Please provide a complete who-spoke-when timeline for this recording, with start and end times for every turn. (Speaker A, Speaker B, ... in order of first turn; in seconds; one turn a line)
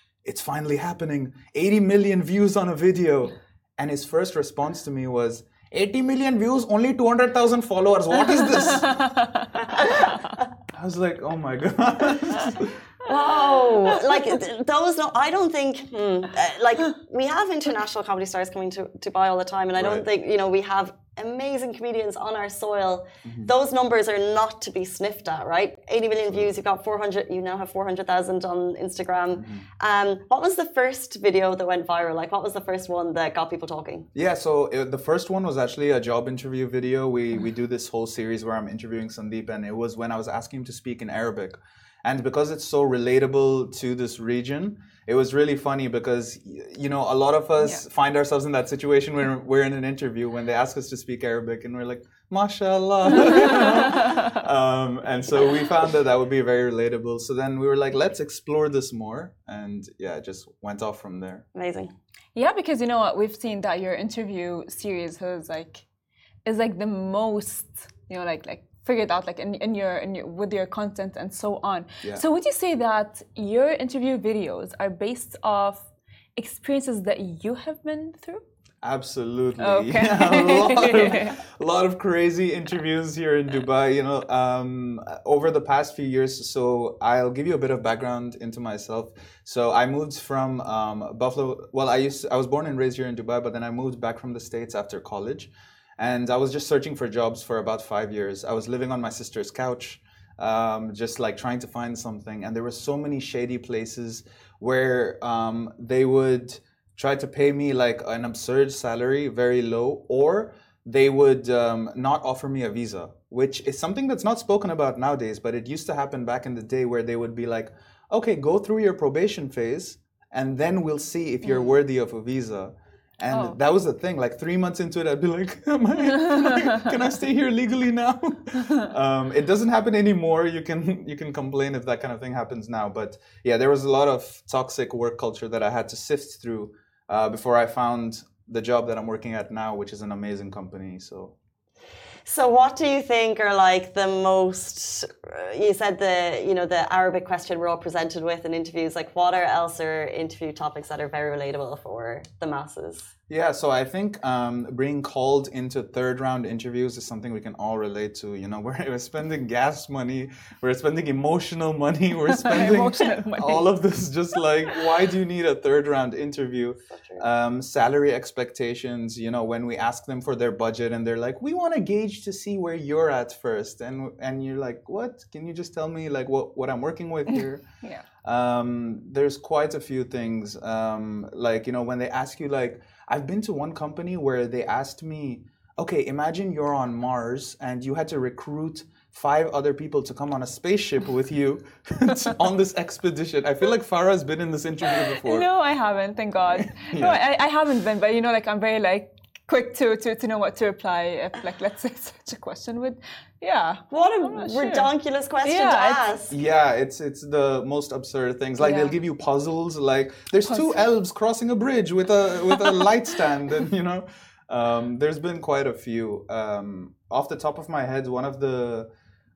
Speaker A: 0.2-9.2
Speaker A: 10.7-12.8
Speaker B: 13.1-34.1
Speaker A: 19.8-20.0
Speaker A: 34.1-61.5
Speaker B: 61.5-61.9
Speaker C: 62.4-65.8
Speaker C: 66.5-78.4
Speaker A: 78.8-141.3
Speaker C: 79.6-81.4
Speaker C: 121.5-121.7
Speaker C: 123.3-123.6
Speaker B: 142.2-153.1
Speaker A: 153.3-177.6
Speaker C: 162.3-163.7
Speaker B: 166.9-167.2
Speaker A: 178.2-195.5
Speaker C: 195.1-204.9
Speaker A: 196.5-197.2
Speaker B: 203.9-206.3
Speaker C: 205.4-206.1
Speaker A: 206.3-218.9
Speaker C: 208.6-208.9
Speaker C: 210.5-210.8